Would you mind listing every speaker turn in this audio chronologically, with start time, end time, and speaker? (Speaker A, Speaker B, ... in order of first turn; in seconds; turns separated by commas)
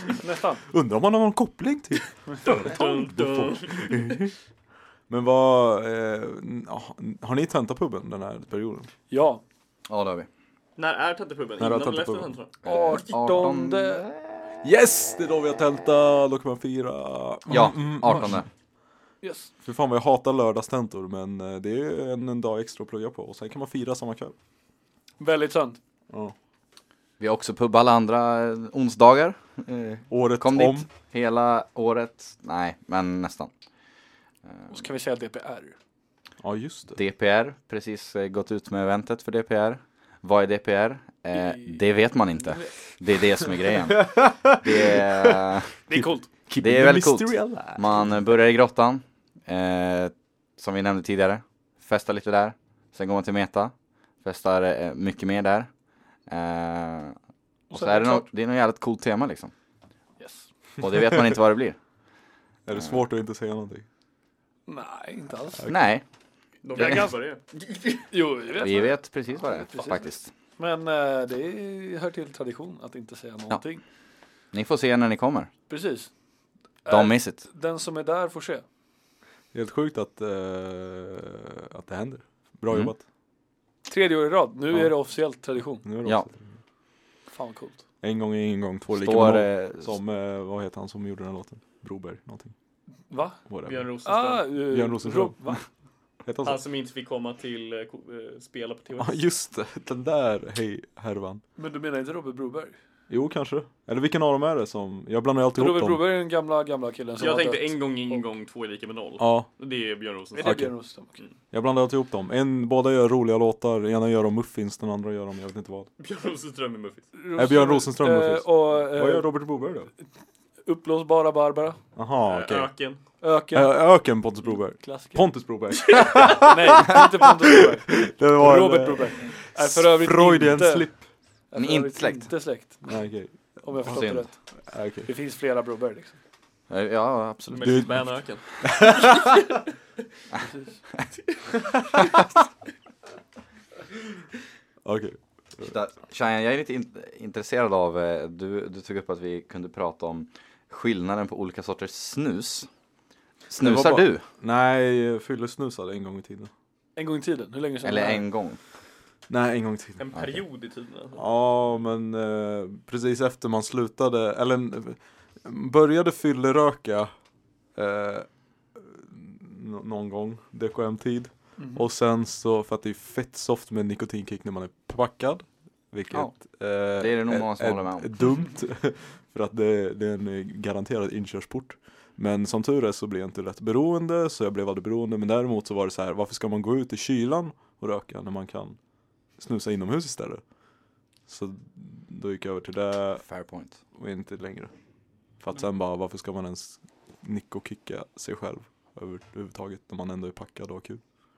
Speaker A: 0.2-0.6, Speaker B: 0.7-4.3, Speaker C: 2.4-4.2, Speaker B: 5.1-8.9, Speaker A: 9.1-9.4, Speaker D: 9.9-10.3, Speaker C: 10.8-13.1, Speaker B: 11.6-12.3, Speaker D: 12.6-14.5, Speaker A: 12.6-14.1, Speaker B: 14.6-18.4, Speaker D: 17.5-18.5, Speaker A: 19.2-19.5, Speaker B: 19.6-24.3, Speaker A: 25.2-25.8, Speaker D: 27.2-33.5, Speaker B: 30.1-30.9, Speaker D: 34.5-34.7, Speaker A: 34.7-35.8, Speaker B: 36.4-37.0, Speaker D: 37.0-45.7, Speaker A: 41.3-41.8, Speaker B: 43.9-45.4, Speaker A: 45.9-46.3, Speaker B: 45.9-48.1, Speaker D: 46.6-55.7, Speaker D: 56.3-57.1, Speaker A: 57.7-58.3, Speaker D: 57.7-59.5, Speaker A: 60.2-60.5, Speaker D: 60.8-61.8, Speaker B: 62.6-63.9, Speaker D: 62.7-63.0, Speaker A: 64.7-65.7, Speaker D: 65.7-66.0, Speaker C: 66.6-68.0, Speaker A: 66.7-67.1, Speaker D: 66.8-67.0, Speaker A: 68.1-73.8, Speaker D: 68.5-70.3, Speaker D: 74.5-75.5, Speaker A: 75.7-76.1, Speaker A: 76.8-78.6, Speaker D: 76.9-77.4, Speaker B: 79.5-83.0, Speaker A: 83.9-85.8, Speaker B: 85.8-86.5, Speaker A: 87.3-87.8, Speaker B: 88.0-92.5, Speaker D: 88.9-90.0, Speaker A: 93.1-93.4, Speaker B: 93.5-93.9, Speaker C: 93.6-94.5, Speaker A: 94.0-95.6, Speaker B: 94.6-95.4, Speaker B: 96.2-96.6, Speaker C: 96.4-99.2, Speaker B: 99.0-101.4, Speaker A: 101.6-102.7, Speaker B: 103.1-106.0, Speaker A: 105.5-108.2, Speaker C: 107.2-110.6, Speaker B: 109.2-109.5, Speaker A: 110.3-111.2, Speaker B: 110.4-110.8, Speaker B: 111.5-115.9, Speaker C: 116.0-117.1, Speaker A: 117.1-119.5, Speaker B: 117.4-119.9, Speaker A: 120.7-121.8, Speaker B: 122.0-122.7, Speaker C: 122.3-123.0, Speaker A: 123.2-123.8, Speaker B: 123.5-127.2, Speaker A: 124.5-125.3, Speaker C: 125.9-126.3, Speaker A: 126.3-130.9, Speaker B: 127.7-131.0, Speaker A: 131.5-133.1, Speaker D: 131.6-132.3, Speaker B: 132.9-133.3, Speaker A: 133.6-134.4, Speaker D: 133.8-134.3, Speaker B: 134.7-135.1, Speaker A: 135.0-136.2, Speaker D: 136.7-137.9, Speaker C: 137.5-139.6, Speaker B: 137.6-137.9, Speaker B: 138.6-139.3, Speaker A: 140.4-140.8, Speaker B: 144.8-145.7, Speaker D: 145.6-152.7, Speaker D: 153.5-154.2, Speaker B: 153.5-156.5, Speaker A: 156.9-158.2, Speaker D: 157.8-158.6, Speaker B: 159.3-160.0, Speaker C: 160.0-161.2, Speaker B: 161.2-167.1, Speaker B: 167.7-188.8, Speaker A: 171.6-171.9, Speaker D: 177.0-178.1, Speaker B: 189.4-190.4, Speaker B: 191.3-193.2, Speaker D: 193.2-193.8, Speaker B: 193.9-194.7, Speaker B: 195.4-201.0